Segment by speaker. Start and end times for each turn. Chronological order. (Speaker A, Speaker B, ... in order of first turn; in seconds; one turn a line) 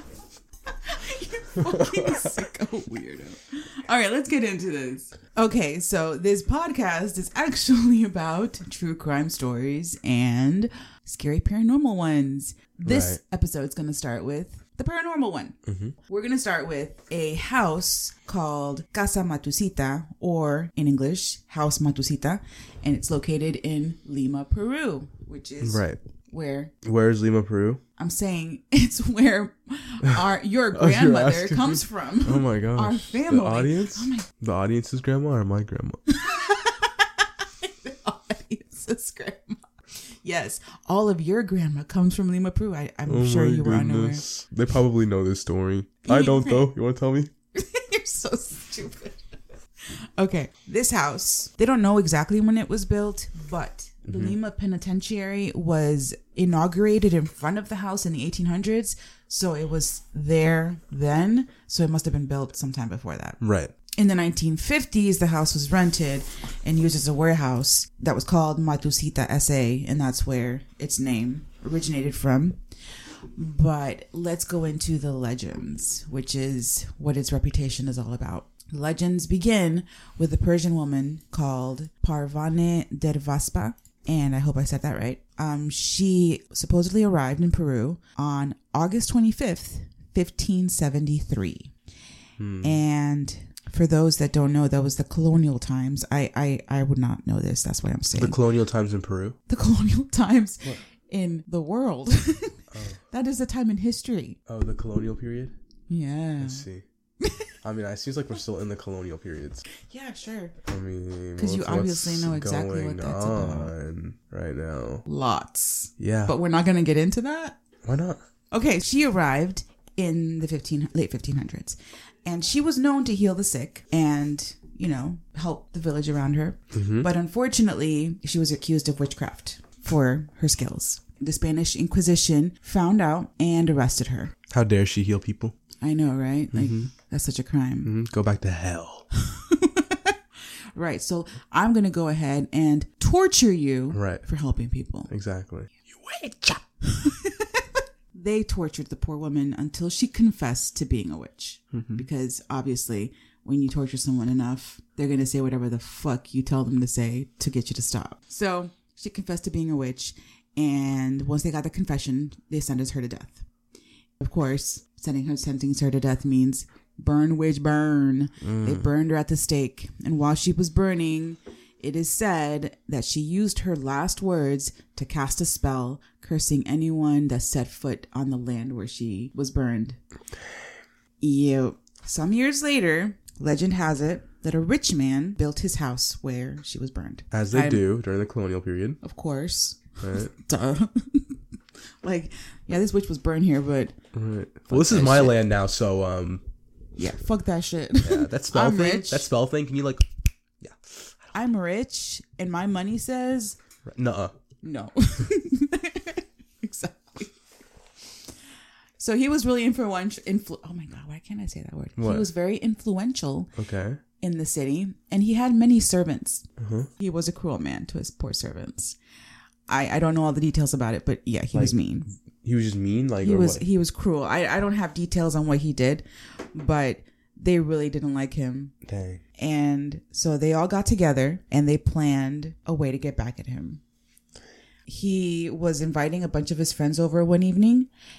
Speaker A: 0.7-26.7
Speaker B: 1.6-2.4
Speaker B: 12.8-13.2
Speaker B: 15.7-15.9
Speaker B: 25.6-26.0
Speaker B: 26.8-27.8
Speaker A: 28.0-34.3
Speaker B: 30.1-36.0
Speaker A: 36.1-39.7
Speaker A: 40.2-44.2
Speaker B: 43.1-47.3
Speaker A: 46.1-46.7
Speaker A: 47.5-49.4
Speaker A: 50.2-63.4
Speaker B: 54.1-54.4
Speaker B: 63.4-63.7
Speaker A: 64.0-72.6
Speaker A: 73.3-91.7
Speaker B: 92.4-92.8
Speaker A: 92.6-98.4
Speaker B: 98.2-99.4
Speaker A: 99.5-104.4
Speaker B: 102.7-103.0
Speaker B: 104.5-105.5
Speaker A: 105.9-106.7
Speaker B: 106.4-106.8
Speaker A: 107.2-107.5
Speaker B: 107.6-109.7
Speaker A: 109.8-110.6
Speaker B: 110.7-115.0
Speaker A: 111.4-113.7
Speaker A: 115.1-117.6
Speaker B: 116.0-116.4
Speaker B: 117.9-118.2
Speaker A: 118.5-134.3
Speaker B: 126.7-127.1
Speaker B: 134.5-135.6
Speaker A: 135.8-137.9
Speaker B: 136.5-136.9
Speaker B: 137.8-139.1
Speaker A: 139.2-140.2
Speaker A: 140.8-145.1
Speaker B: 143.9-144.2
Speaker B: 145.1-146.6
Speaker A: 146.8-163.5
Speaker B: 151.7-152.0
Speaker A: 164.2-180.0
Speaker B: 168.4-168.9
Speaker A: 181.2-187.8
Speaker B: 187.3-189.0
Speaker A: 189.0-191.4
Speaker B: 190.0-190.3
Speaker A: 192.0-193.9
Speaker B: 194.1-196.4
Speaker A: 194.7-195.4
Speaker A: 197.0-199.3
Speaker B: 198.0-200.8
Speaker A: 201.3-203.6
Speaker B: 203.9-204.4
Speaker A: 204.6-207.4
Speaker A: 209.0-213.5
Speaker B: 212.0-212.3
Speaker B: 213.6-214.0
Speaker A: 214.2-219.0
Speaker B: 216.6-216.9
Speaker A: 219.7-222.1
Speaker B: 222.4-223.6
Speaker A: 223.2-228.7
Speaker B: 228.9-229.2
Speaker A: 229.4-233.8
Speaker A: 234.9-237.9